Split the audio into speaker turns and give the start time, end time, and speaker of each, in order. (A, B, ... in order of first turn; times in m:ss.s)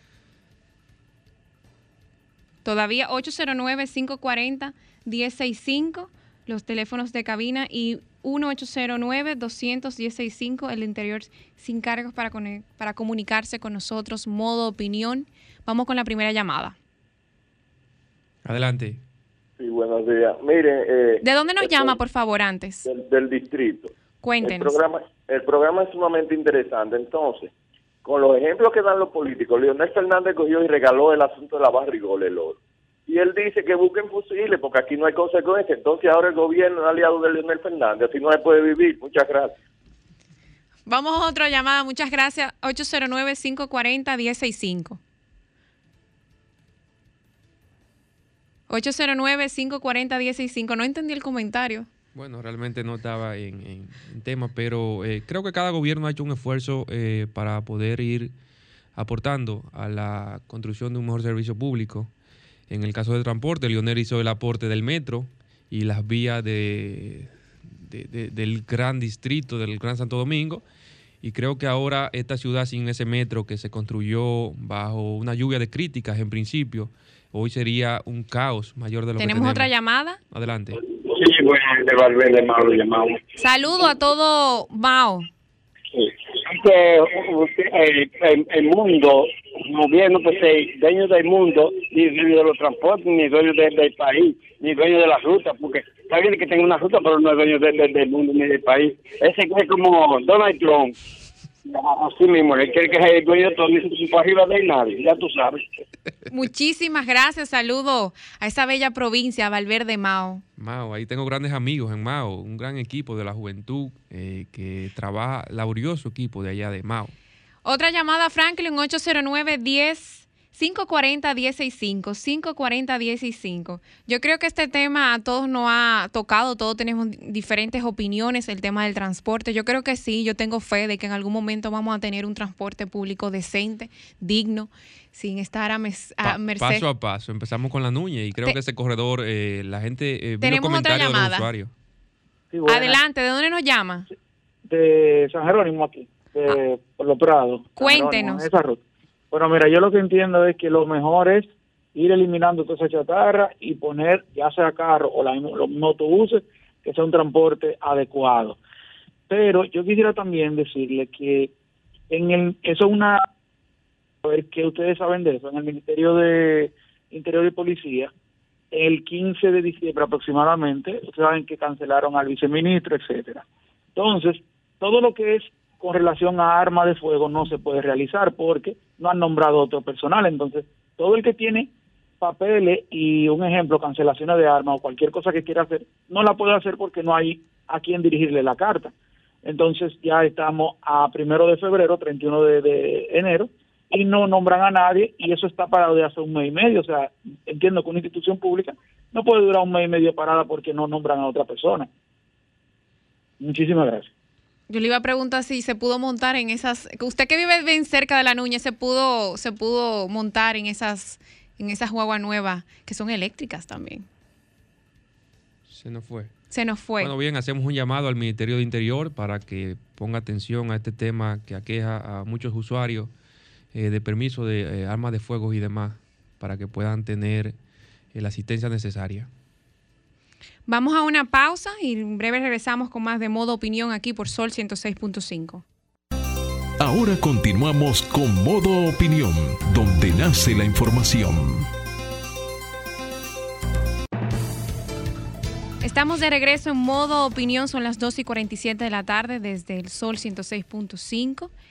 0:02.6-0:16.8 A
0:18.4-0:19.0 B
0:19.6-0:22.0 C
0:21.2-0:22.9 A
0:22.8-0:27.5 C
0:24.2-0:24.8 A
0:28.0-0:39.6 C
0:40.9-0:45.0 A
0:48.7-0:51.9 A
0:52.1-0:58.3 B
0:59.0-1:02.1 B
1:02.7-1:10.6 B
1:11.2-1:19.7 B
1:19.2-1:20.2 A
1:20.3-1:20.8 B
1:21.0-1:23.2 D
1:23.4-1:25.3 A
1:25.9-1:41.0 D
1:41.6-1:45.7 D
1:46.3-1:50.4 A
1:50.6-1:57.2 B
1:57.6-2:16.9 A
2:16.2-2:21.7 B
2:20.4-2:21.5 A
2:22.5-2:23.0 E
2:22.7-2:24.1 A
2:24.7-2:38.6 E
2:27.8-2:28.5 A
2:39.3-2:41.5 E
2:42.1-2:43.2 E
2:44.2-2:48.1 E
2:48.7-3:01.7 E
3:02.2-3:08.9 E
3:09.4-3:21.9 E
3:23.4-3:24.1 E
3:24.7-3:34.1 A
3:35.7-3:36.3 B
3:36.5-3:37.2 A
3:37.0-3:43.1 B
3:43.7-3:47.6 B
3:48.1-3:49.3 B
3:50.7-3:55.6 A
3:56.8-4:01.7 F
4:05.8-4:11.5 A